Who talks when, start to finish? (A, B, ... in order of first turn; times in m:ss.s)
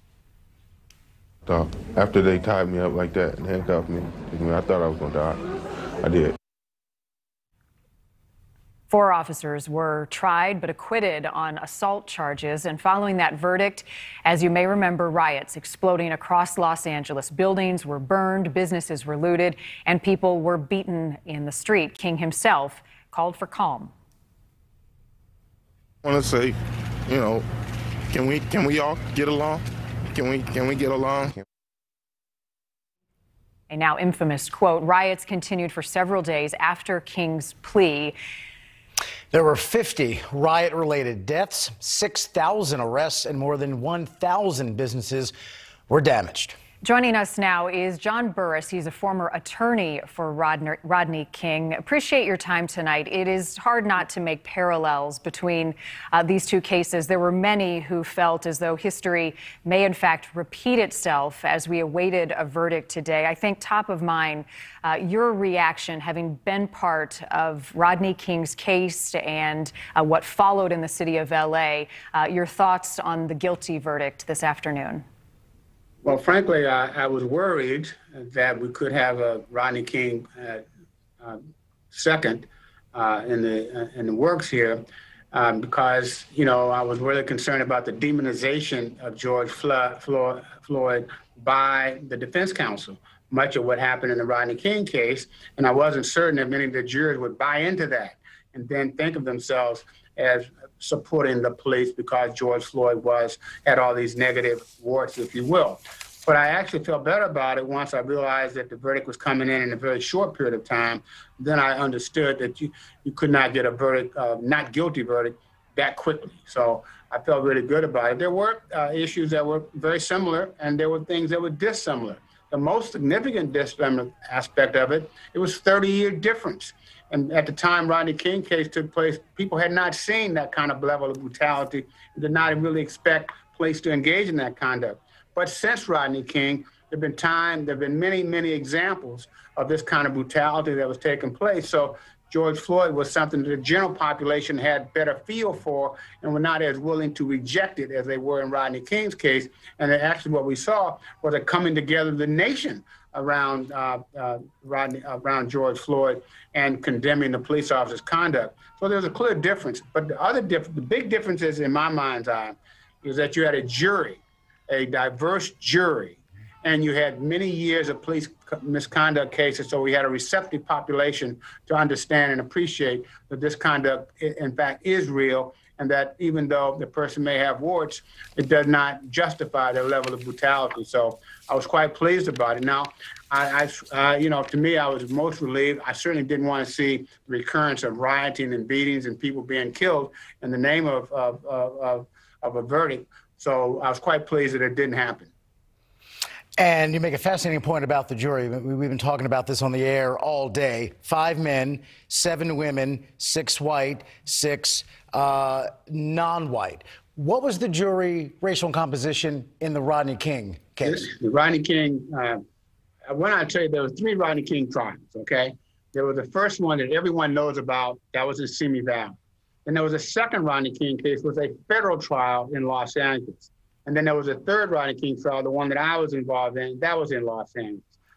0:01.4-0:05.4 A
0:06.0-0:06.4 A
0:08.9-0:23.9 B
0:26.0-0:27.4 A
0:28.1-0:31.3 A
0:33.7-0:38.2 B
0:39.3-0:45.3 C
0:45.9-0:46.6 C
0:46.8-1:15.0 B
1:16.0-1:20.6 D
1:21.9-3:15.3 D
3:16.6-3:31.1 C
3:30.8-3:32.4 D
3:33.1-3:47.9 D